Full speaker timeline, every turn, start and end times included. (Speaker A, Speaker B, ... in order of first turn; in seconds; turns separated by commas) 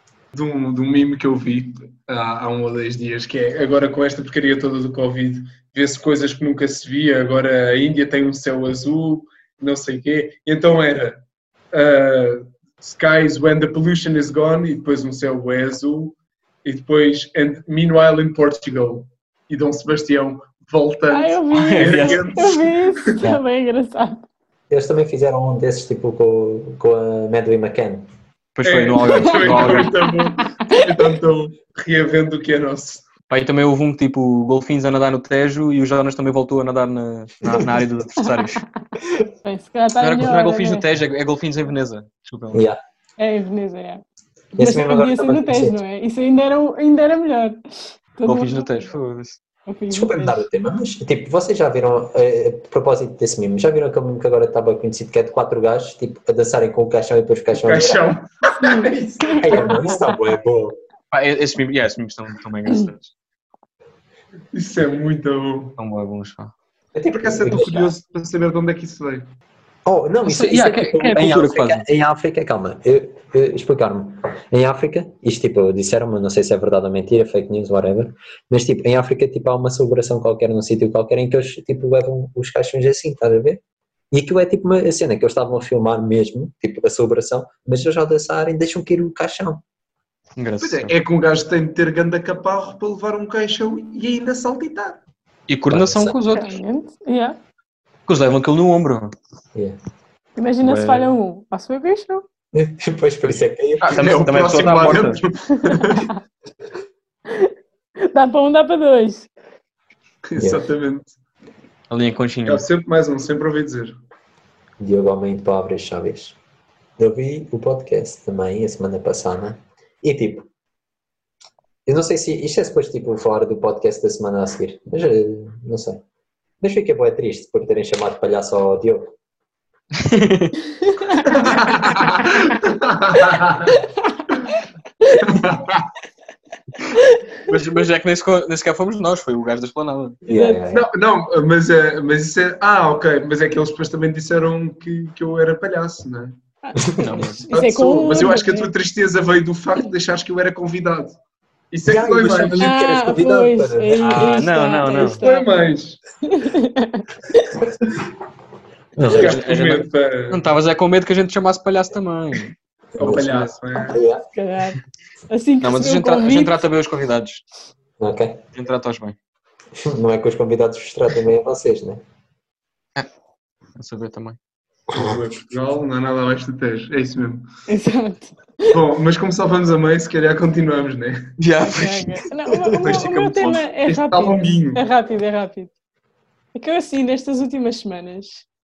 Speaker A: 0.3-23.2, Speaker B: 21.1-24.3, Speaker C: 21.5-22.3, Speaker D: 24.7-28.1, Speaker C: 28.6-30.0, Speaker A: 28.6-33.0, Speaker B: 30.2-30.9, Speaker C: 33.3-38.6, Speaker B: 39.4-40.9, Speaker C: 40.0-42.7, Speaker D: 42.5-42.8, Speaker B: 43.2-44.0, Speaker B: 44.6-47.6, Speaker D: 44.6-45.8, Speaker B: 48.2-48.9, Speaker C: 48.2-49.4, Speaker B: 49.7-50.5, Speaker D: 49.9-58.1, Speaker A: 57.5-60.0, Speaker B: 58.6-60.1, Speaker D: 59.4-60.8, Speaker C: 61.1-63.1, Speaker A: 64.5-65.8, Speaker C: 65.8-66.5, Speaker D: 67.0-68.0, Speaker A: 67.1-69.3, Speaker D: 69.8-89.6, Speaker C: 70.2-71.8, Speaker C: 90.4-90.9, Speaker A: 90.6-95.0, Speaker C: 95.5-96.6, Speaker D: 95.7-96.2, Speaker B: 96.3-97.4, Speaker C: 98.1-99.1, Speaker B: 100.4-102.2, Speaker C: 100.6-101.1, Speaker D: 102.5-104.2, Speaker C: 103.8-105.2, Speaker A: 103.9-106.1, Speaker B: 105.6-106.1, Speaker B: 108.0-109.3, Speaker A: 110.2-111.2, Speaker D: 110.4-110.6, Speaker C: 111.9-112.7, Speaker A: 112.5-114.0, Speaker D: 114.8-116.4, Speaker D: 117.0-120.5, Speaker D: 121.9-126.0, Speaker D: 126.6-129.1, Speaker C: 130.0-130.5, Speaker B: 130.8-131.4, Speaker A: 131.3-133.8, Speaker A: 135.1-135.9, Speaker B: 136.9-137.2, Speaker C: 137.4-140.2, Speaker D: 140.3-140.9, Speaker B: 140.3-140.6, Speaker A: 140.7-146.4, Speaker B: 146.6-148.7, Speaker C: 147.0-147.4, Speaker A: 147.5-151.2, Speaker A: 151.7-152.7, Speaker D: 151.8-154.5, Speaker B: 152.6-155.7, Speaker C: 154.0-155.2, Speaker A: 155.2-156.0, Speaker B: 156.2-157.4, Speaker D: 159.0-159.4, Speaker C: 159.0-162.6, Speaker A: 159.1-160.4, Speaker D: 163.0-164.2, Speaker A: 163.0-164.0, Speaker C: 163.1-163.5, Speaker B: 164.3-166.6, Speaker C: 165.6-167.4, Speaker D: 168.0-168.4, Speaker C: 168.6-169.2, Speaker D: 169.8-172.0, Speaker C: 173.8-174.4, Speaker A: 174.9-177.5, Speaker B: 177.7-178.7, Speaker A: 178.7-181.3, Speaker C: 181.4-183.6, Speaker B: 181.7-185.7, Speaker A: 182.9-183.1, Speaker A: 183.8-184.8, Speaker B: 186.5-188.5